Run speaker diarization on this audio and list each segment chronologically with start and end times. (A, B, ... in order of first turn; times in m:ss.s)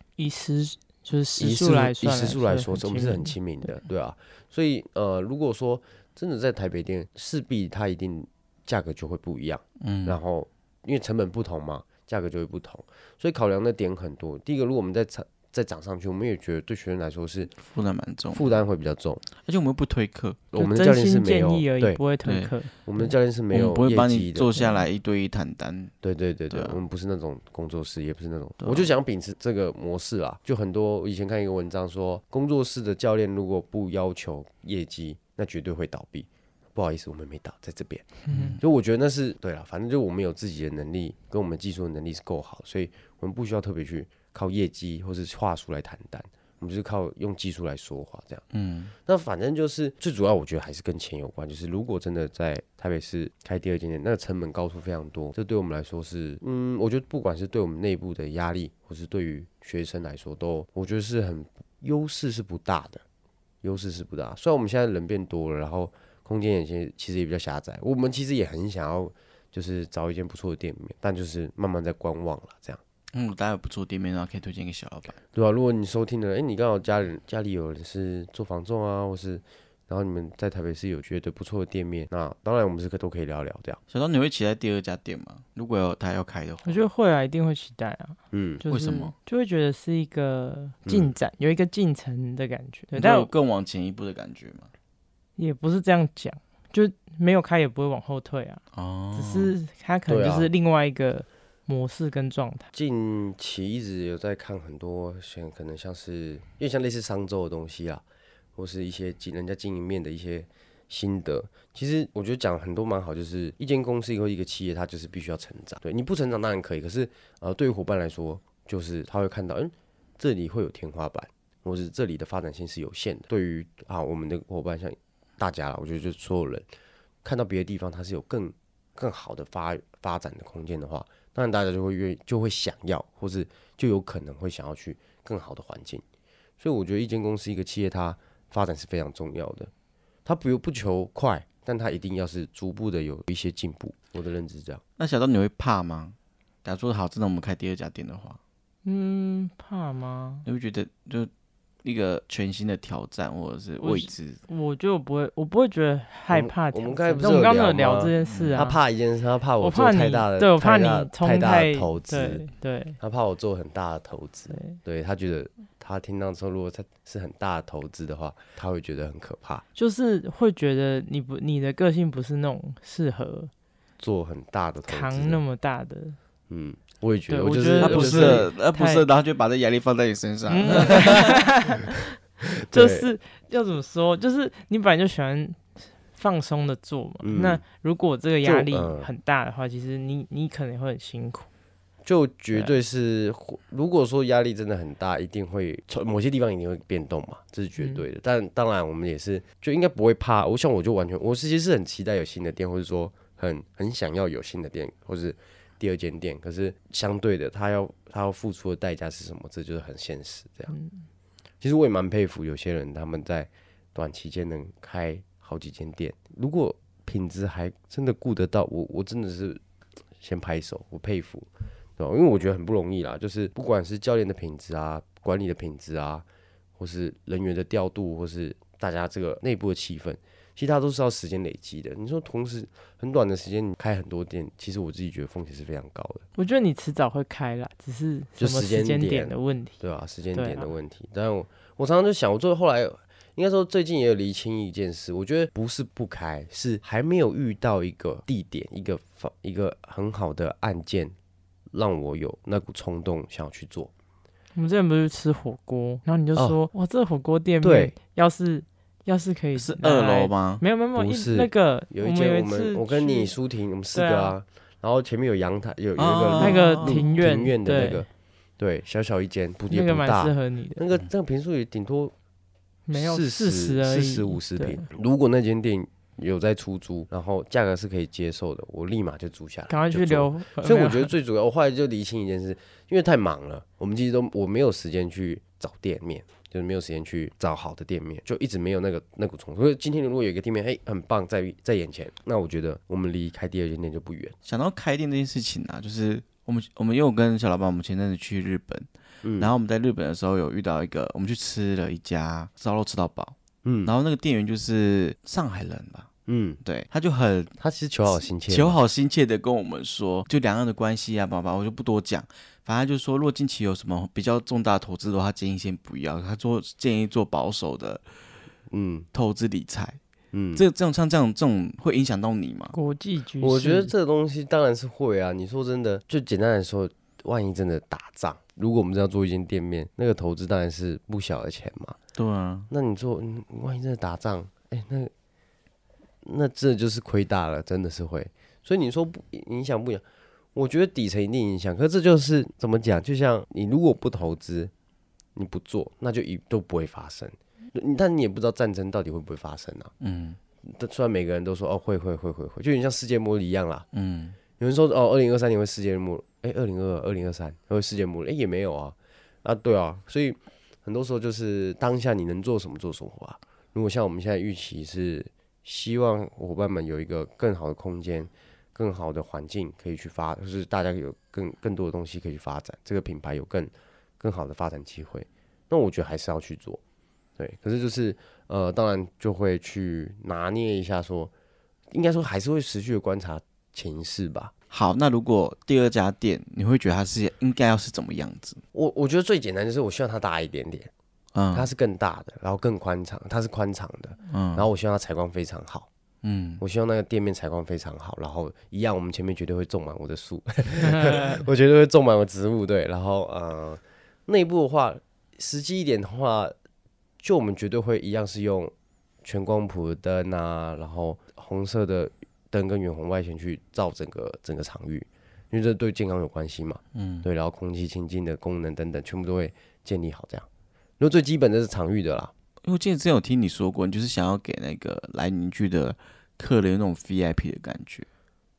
0:00.2-0:03.7 A
0:01.4-0:17.5 B
0:09.8-0:10.2 C
0:17.6-0:18.5 C
0:18.3-0:19.2 B
0:19.4-0:20.4 C
0:20.5-0:22.0 B
0:20.5-0:23.1 A
0:22.2-0:22.5 C
0:22.8-0:24.5 B
0:23.5-0:25.9 C
0:24.6-0:24.8 A
0:26.0-0:48.4 B
0:26.5-0:26.8 C
0:28.6-0:28.9 C
0:38.3-0:38.6 A
0:38.3-0:38.6 C
0:48.5-0:48.9 C
0:49.0-1:03.0 B
1:03.6-1:12.8 B
1:13.1-1:15.2 C
1:15.3-1:23.8 B
1:23.9-1:26.8 C
1:26.6-1:33.3 A
1:28.3-1:28.6 B
1:28.7-1:29.1 C
1:30.8-1:31.1 B
1:32.9-1:34.7 C
1:35.4-1:38.6 A
1:38.7-1:39.5 C
1:39.1-1:42.7 A
1:40.1-1:40.5 B
1:42.7-1:48.0 B
1:48.6-2:06.7 B
2:07.2-2:16.0 B
2:16.6-2:19.7 B
2:20.2-2:24.8 B
2:25.0-2:28.4 C
2:28.8-2:30.4 A
2:30.4-2:31.3 C
2:31.8-2:34.4 C
2:33.8-2:38.8 A
2:36.3-2:42.4 B
2:38.2-2:38.6 C
2:39.6-2:43.0 A
2:43.0-2:49.6 B
2:44.5-2:44.8 A
2:49.7-2:53.5 A
2:54.0-2:55.4 B
2:54.9-2:56.2 A
2:56.5-2:58.5 B
2:57.3-2:59.1 A
2:57.8-3:01.3 C
3:00.4-3:02.0 A
3:02.5-3:03.1 B
3:02.7-3:11.5 A
3:07.2-3:07.6 B
3:08.4-3:09.1 B
3:12.0-3:30.7 B
3:30.7-3:31.1 A
3:31.6-3:39.6 B
3:40.2-3:46.2 B
3:46.8-3:56.2 B
3:56.3-3:59.8 A
3:58.4-4:11.1 B
4:00.3-4:00.7 A
4:11.7-4:13.9 B
4:14.5-4:23.3 A
4:16.3-4:16.6 B
4:17.6-4:17.9 B
4:19.6-4:20.6 C
4:20.9-4:28.1 B
4:23.9-4:24.4 A
4:26.0-4:27.0 C
4:26.4-4:28.1 A
4:28.6-4:32.1 B
4:29.7-4:30.8 A
4:32.9-4:34.8 A
4:32.9-4:54.4 B
4:39.7-4:41.1 A
4:54.4-5:06.1 C
4:59.2-4:59.5 B
5:03.6-5:03.9 B
5:06.2-5:06.6 B
5:06.6-5:07.5 C
5:07.6-5:08.8 B
5:08.2-5:18.3 C
5:18.7-5:19.1 B
5:19.1-5:20.0 C
5:20.3-5:20.6 B
5:20.5-5:22.7 C
5:22.7-5:23.9 A
5:23.4-5:32.0 B
5:32.2-5:32.7 C
5:32.7-5:35.1 B
5:36.2-5:40.0 B
5:40.5-5:44.7 B
5:45.3-5:49.9 B
5:50.0-5:50.4 C
5:50.6-5:53.9 B
5:53.9-5:54.4 C
5:54.6-6:16.8 B
6:17.4-6:21.3 B
6:21.9-6:24.5 B
6:24.7-6:28.6 C
6:28.7-6:30.9 B
6:31.3-6:31.7 C
6:31.5-6:35.9 B
6:34.3-6:34.6 C
6:36.2-6:36.6 C
6:36.6-6:46.5 B
6:47.2-6:48.7 B
6:49.2-7:00.4 B
6:56.9-6:57.3 C
7:01.0-7:02.3 B
7:02.6-7:08.1 C